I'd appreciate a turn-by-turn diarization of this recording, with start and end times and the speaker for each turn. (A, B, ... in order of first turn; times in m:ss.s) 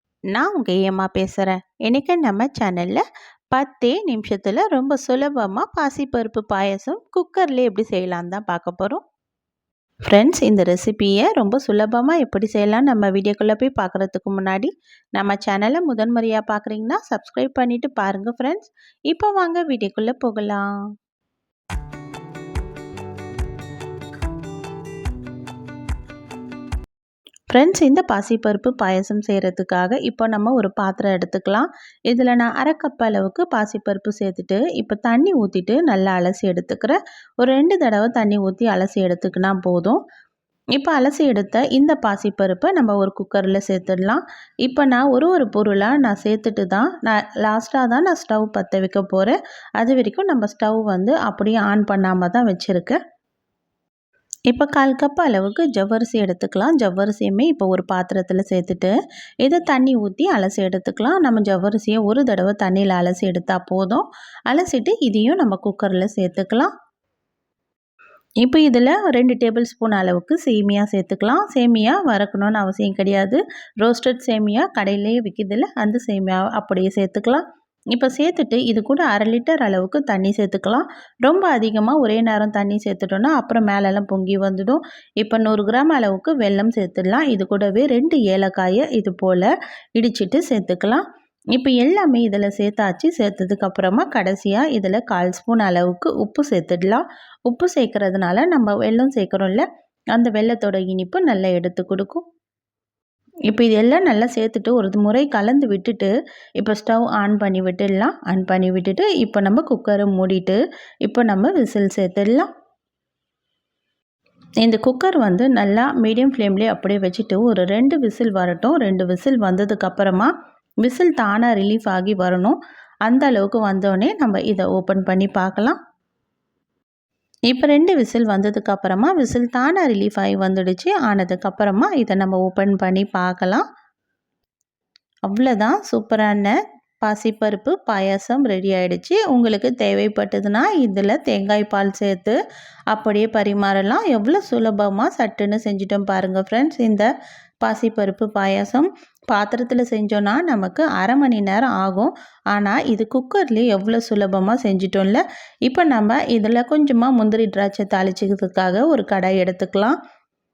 0:00.3-0:09.0 A
0:10.1-0:20.7 A
0:27.5-0:40.0 A
0:40.8-0:53.0 A
0:54.5-1:06.7 A
1:08.4-1:42.2 A
1:43.5-1:52.5 A
1:54.6-2:00.3 A
2:00.8-2:05.8 A
2:07.5-2:13.6 A
2:15.3-2:22.4 A
2:22.9-2:27.1 A
2:27.6-2:40.0 A